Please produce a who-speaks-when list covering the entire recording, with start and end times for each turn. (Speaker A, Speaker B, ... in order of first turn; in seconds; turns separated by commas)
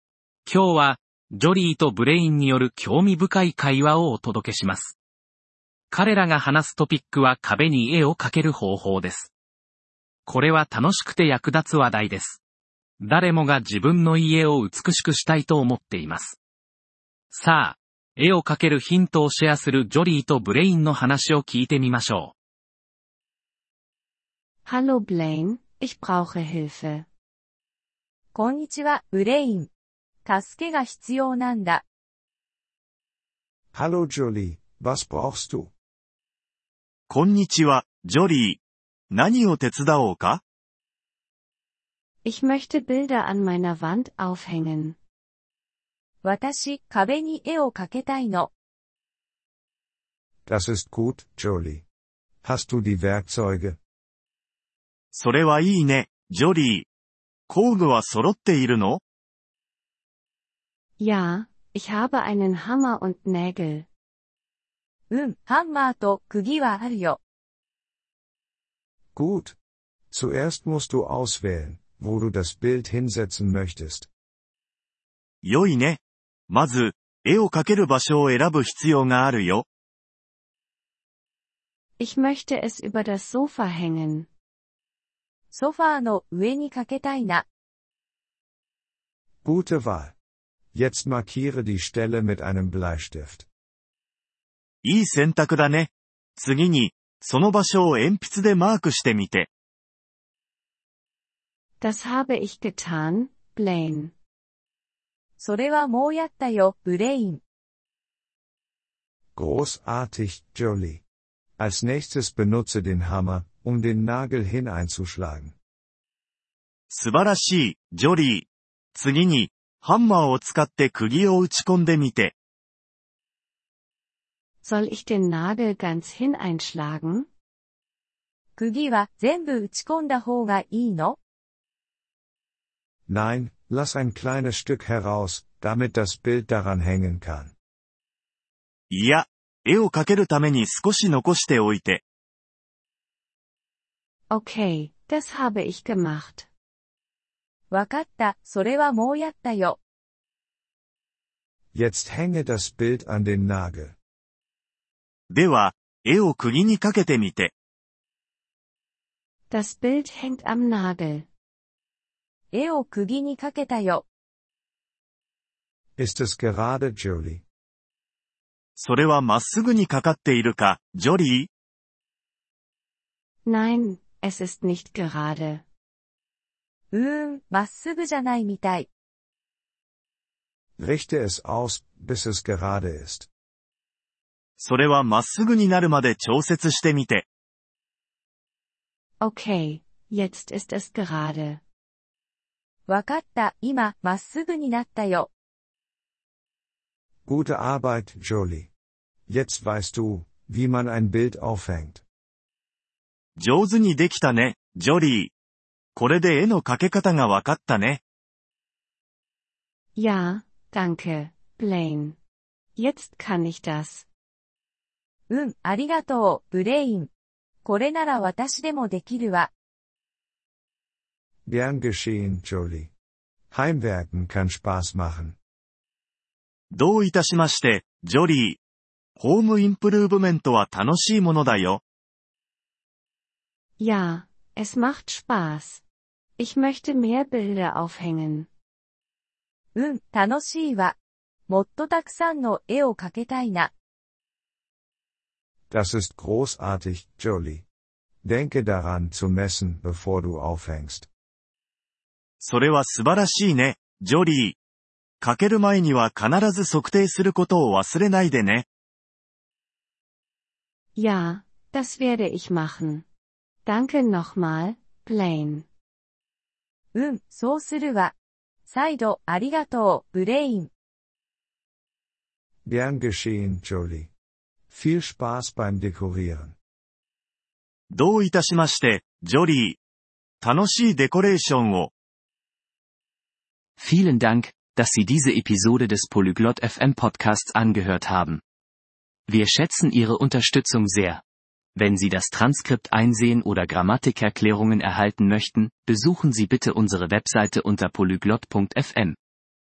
Speaker A: 0.5-5.0, Speaker A: 5.9-9.3, Speaker A: 10.2-12.4, Speaker A: 13.0-16.4, Speaker A: 17.3-22.3, Speaker B: 24.6-27.1, Speaker C: 28.3-29.7, Speaker C: 30.2-31.8, Speaker D: 33.7-35.7, Speaker E: 37.1-38.6, Speaker E: 39.1-40.4, Speaker B: 42.2-45.0, Speaker C: 46.2-48.5, Speaker D: 50.5-51.8, Speaker D: 52.4-53.8, Speaker E: 55.1-56.9, Speaker E: 57.5-59.0, Speaker B: 61.0-63.9, Speaker C: 65.1-67.2, Speaker D: 69.1-69.5, Speaker D: 70.1-74.1, Speaker E: 75.4-79.7, Speaker B: 82.0-84.3, Speaker C: 85.5-87.5, Speaker D: 89.4-90.1, Speaker D: 90.7-93.5, Speaker E: 94.8-99.5, Speaker B: 101.8-104.1, Speaker C: 105.4-107.4, Speaker D: 109.3-111.0, Speaker D: 111.6-115.5, Speaker E: 116.9-122.3, Speaker B: 124.6-127.3, Speaker C: 128.6-131.2, Speaker D: 133.1-137.5, Speaker E: 138.9-142.0, Speaker B: 144.3-146.5, Speaker C: 147.7-149.8, Speaker D: 151.7-153.9, Speaker E: 155.3-157.5, Speaker B: 159.5-161.3, Speaker C: 162.5-164.0, Speaker D: 166.0-167.4, Speaker E: 168.8-171.5, Speaker B: 173.4-175.6, Speaker C: 176.9-178.9, Speaker D: 180.8-183.3, Speaker E: 184.6-187.3, Speaker B: 189.2-191.6, Speaker C: 192.9-195.3, Speaker D: 197.2-198.7, Speaker D: 199.3-202.0, Speaker E: 203.4-205.3, Speaker E: 205.9-208.0, Speaker B: 209.9-212.2, Speaker B: 212.8-214.1, Speaker C: 215.3-217.1, Speaker C: 217.6-219.5, Speaker D: 221.4-222.9, Speaker D: 223.5-225.3, Speaker E: 226.7-228.6, Speaker E: 229.2-231.8, Speaker B: 233.8-235.8, Speaker B: 236.4-238.5, Speaker C: 239.8-240.9, Speaker C: 241.5-243.7, Speaker D: 245.7-247.6, Speaker D: 248.2-251.1, Speaker E: 252.4-254.6, Speaker E: 255.2-258.7, Speaker B: 260.9-263.0, Speaker B: 263.6-265.6, Speaker C: 266.9-268.1, Speaker C: 268.6-270.7, Speaker D: 272.6-274.1, Speaker D: 274.7-276.5, Speaker E: 277.9-279.8, Speaker E: 280.4-281.9, Speaker F: 283.8-288.4, Speaker F: 289.3-291.2, Speaker F: 291.8-299.2